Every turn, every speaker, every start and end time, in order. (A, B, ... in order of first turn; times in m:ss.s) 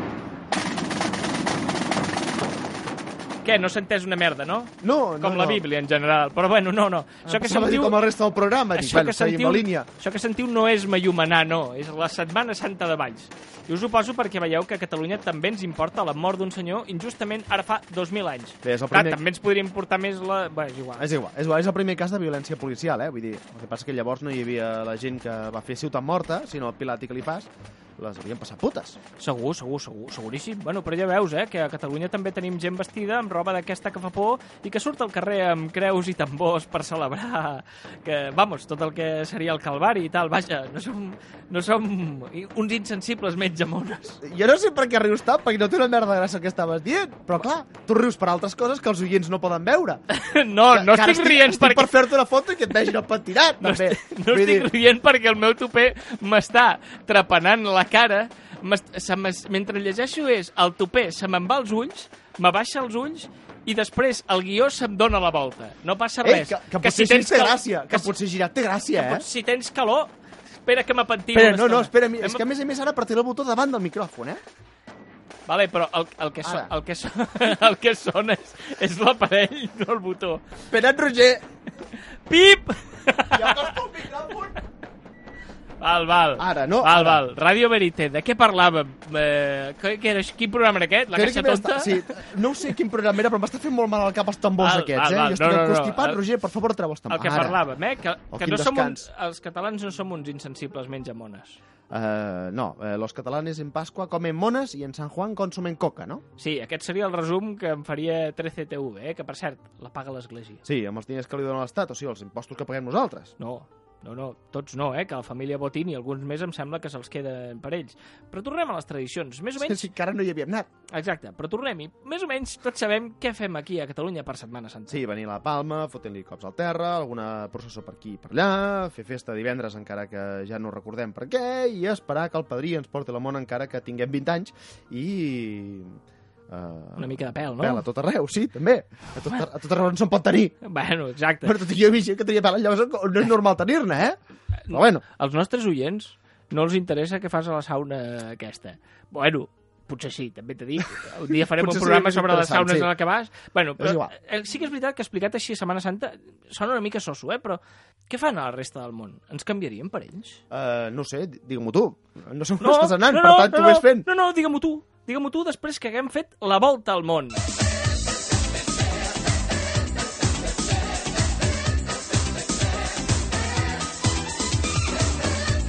0:03.4-0:08.0 A
0:04.8-0:05.6 B
0:07.2-0:09.9 B
0:08.8-0:21.1 A
0:18.6-0:19.2 B
0:21.0-0:29.0 B
0:29.2-0:44.2 A
0:44.2-0:50.0 B
0:50.1-0:52.0 A
0:50.7-0:54.7 B
0:53.6-1:08.1 A
1:06.2-1:09.2 B
1:09.0-1:10.1 A
1:10.6-1:12.4 A
1:11.3-1:14.4 B
1:15.5-1:20.4 A
1:16.4-1:16.7 B
1:20.7-1:21.4 B
1:22.3-1:23.8 A
1:23.3-1:24.6 B
1:25.8-1:32.1 A
1:26.4-1:27.2 B
1:31.1-1:37.6 B
1:34.6-1:36.2 A
1:37.1-1:41.6 A
1:38.3-1:39.1 B
1:41.9-1:46.2 B
1:46.4-1:50.6 A
1:50.6-1:53.3 B
1:53.4-1:59.9 A
1:59.6-2:00.7 B
2:00.9-2:05.0 A
2:04.9-2:20.6 B
2:17.0-2:17.8 A
2:20.6-2:21.6 A
2:21.4-2:24.2 B
2:24.7-2:40.4 A
2:24.7-2:25.0 B
2:31.3-2:32.9 B
2:33.8-2:34.1 B
2:40.5-2:44.1 B
2:42.6-2:47.4 A